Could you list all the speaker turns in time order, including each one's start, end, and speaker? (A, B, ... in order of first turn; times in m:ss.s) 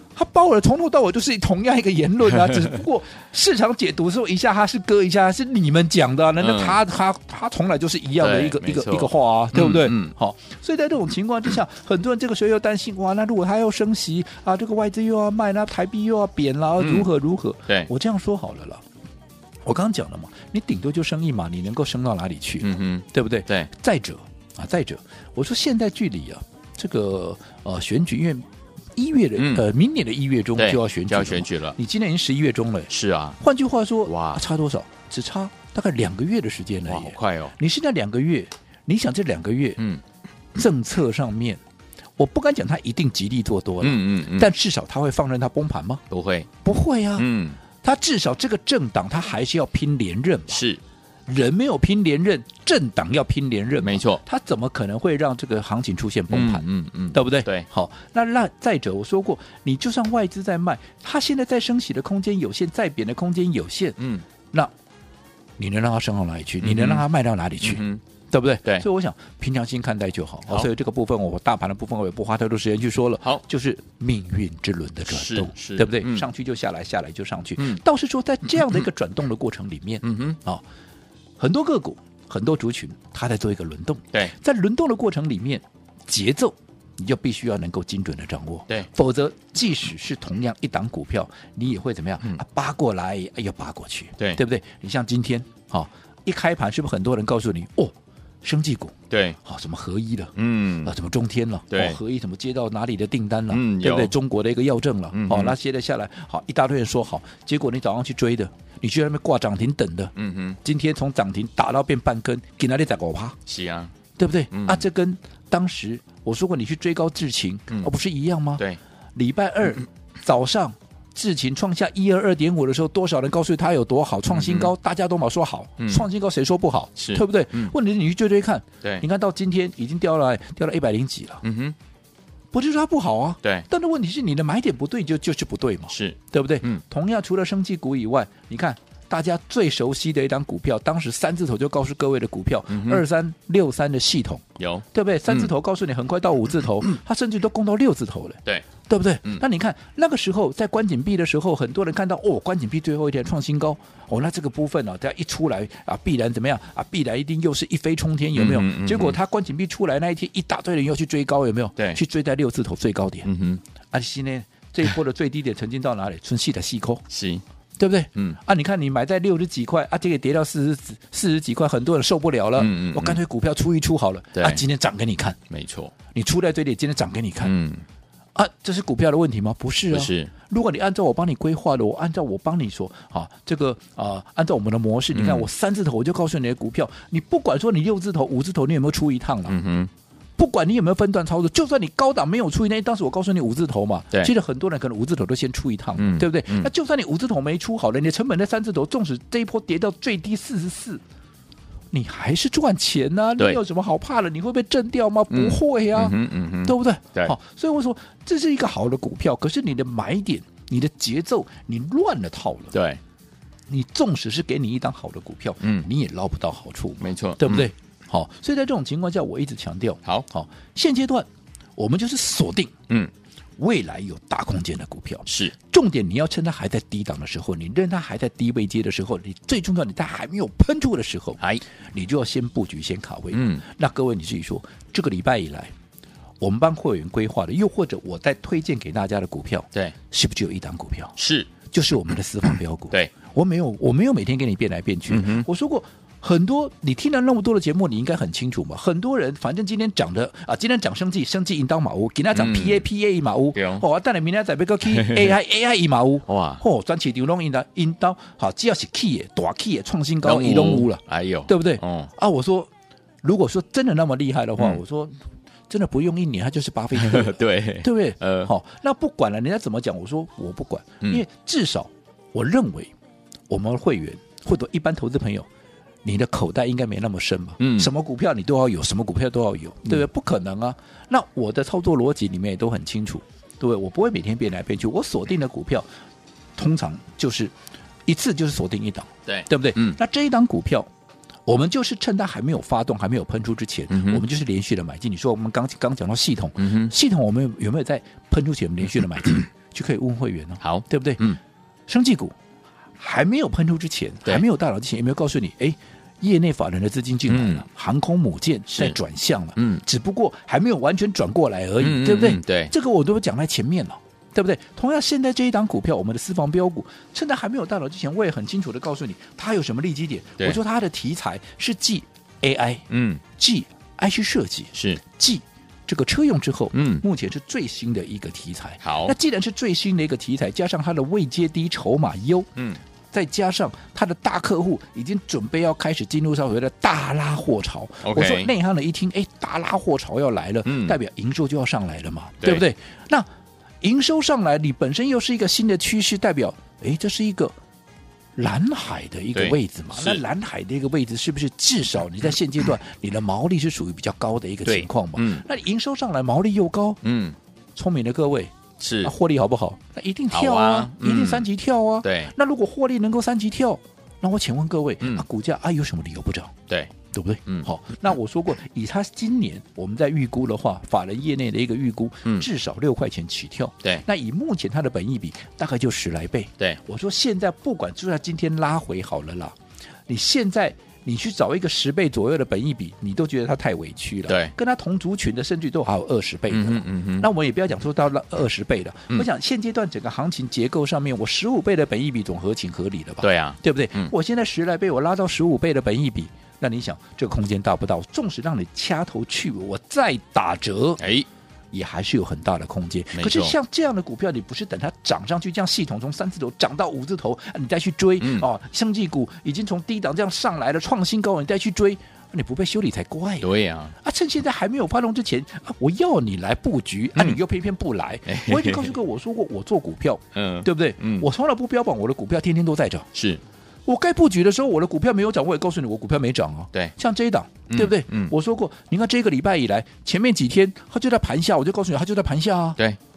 0:00.2-0:18.8 A
0:06.4-0:06.8 B
0:08.2-0:10.1 B
0:16.8-0:17.1 B
0:19.6-0:28.4 A
0:22.6-0:23.7 B
0:29.0-0:39.8 A
0:29.4-0:29.7 B
0:30.6-0:31.8 B
0:32.9-0:33.4 B
0:34.0-0:34.4 B
0:36.9-0:37.5 B
0:40.5-0:41.6 A
0:42.2-0:46.0 A
0:43.8-0:44.5 B
0:46.1-0:46.5 B
0:46.6-0:47.3 A
0:47.2-0:47.6 B
0:47.8-0:50.6 A
0:50.5-0:50.8 B
0:51.3-1:04.0 A
0:53.8-0:54.2 B
0:56.3-0:57.7 B
1:04.0-1:04.2 B
1:05.6-1:20.6 A
1:06.6-1:07.0 B
1:07.6-1:08.0 B
1:15.1-1:16.3 B
1:20.0-1:20.4 B
1:21.4-1:53.4 A
1:39.1-1:39.4 B
1:40.4-1:40.9 B
1:41.7-1:42.0 B
1:43.5-1:44.1 B
1:45.1-1:45.6 B
1:50.2-1:50.6 B
1:53.5-1:53.9 B
1:54.2-1:58.6 A
1:54.5-1:54.8 B
1:59.2-2:11.4 A
2:04.3-2:04.7 B
2:05.8-2:06.1 B
2:07.0-2:07.7 B
2:11.4-2:11.8 B
2:12.5-2:43.3 A
2:15.9-2:16.8 B
2:22.7-2:23.0 B
2:24.6-2:25.5 B
2:38.3-2:39.2 B
2:43.2-2:43.6 B
2:43.9-2:47.0 A
2:47.1-2:47.4 B
2:47.8-2:55.4 A
2:52.6-2:53.2 B
2:54.3-2:54.6 B
2:55.5-2:55.9 B
2:56.1-2:57.5 A
2:57.4-2:57.8 B
2:58.3-3:09.6 A
2:59.9-3:00.3 B
3:05.1-3:05.5 B
3:09.5-3:09.9 B
3:10.4-3:21.0 A
3:16.0-3:16.7 B
3:21.9-3:32.8 A
3:25.3-3:27.3 B
3:32.7-3:33.0 B
3:33.7-3:42.8 A
3:35.6-3:35.9 B
3:37.0-3:37.7 B
3:43.6-3:51.4 A
3:45.3-3:45.5 B
3:51.9-3:55.7 A
3:53.3-3:53.6 B
3:56.4-4:01.1 A
4:01.2-4:01.5 B
4:01.7-4:22.7 A
4:05.1-4:05.5 B
4:12.3-4:12.8 B
4:13.5-4:13.8 B
4:15.0-4:15.3 B
4:16.3-4:16.6 B
4:20.2-4:22.1 B
4:23.2-4:25.1 A
4:25.7-4:32.9 A
4:26.9-4:28.5 B
4:33.5-4:35.5 A
4:36.0-4:45.9 A
4:37.6-4:37.9 B
4:46.6-4:47.5 A
4:48.1-4:50.9 A
4:49.2-4:50.0 B
4:51.5-5:01.3 A
4:53.9-4:54.2 B
4:56.6-4:56.9 B
5:00.6-5:01.4 B
5:01.9-5:02.4 A
5:03.0-5:32.5 A
5:07.3-5:07.6 B
5:08.7-5:09.0 B
5:09.6-5:09.8 B
5:11.8-5:12.7 B
5:22.9-5:23.2 B
5:24.7-5:25.0 B
5:26.7-5:27.0 B
5:28.8-5:29.1 B
5:33.1-5:43.3 A
5:38.0-5:38.5 B
5:40.6-5:41.0 B
5:43.8-5:47.6 A
5:48.4-5:57.0 A
5:49.4-5:50.2 B
5:54.7-5:55.4 B
5:57.0-5:57.4 B
5:57.8-6:06.5 A
5:58.8-5:59.1 B
6:00.3-6:01.5 B
6:02.0-6:02.3 B
6:07.1-6:19.6 A
6:20.1-6:41.0 A
6:24.3-6:24.5 B
6:26.5-6:27.3 B
6:33.2-6:34.1 B
6:41.0-6:41.3 B
6:41.7-7:03.1 A
6:43.1-6:43.6 B
6:48.2-6:48.5 B
6:53.4-6:53.9 B
6:58.3-6:59.0 B
7:00.3-7:01.3 B
7:03.1-7:03.4 B
7:03.9-7:12.8 A
7:07.7-7:08.3 B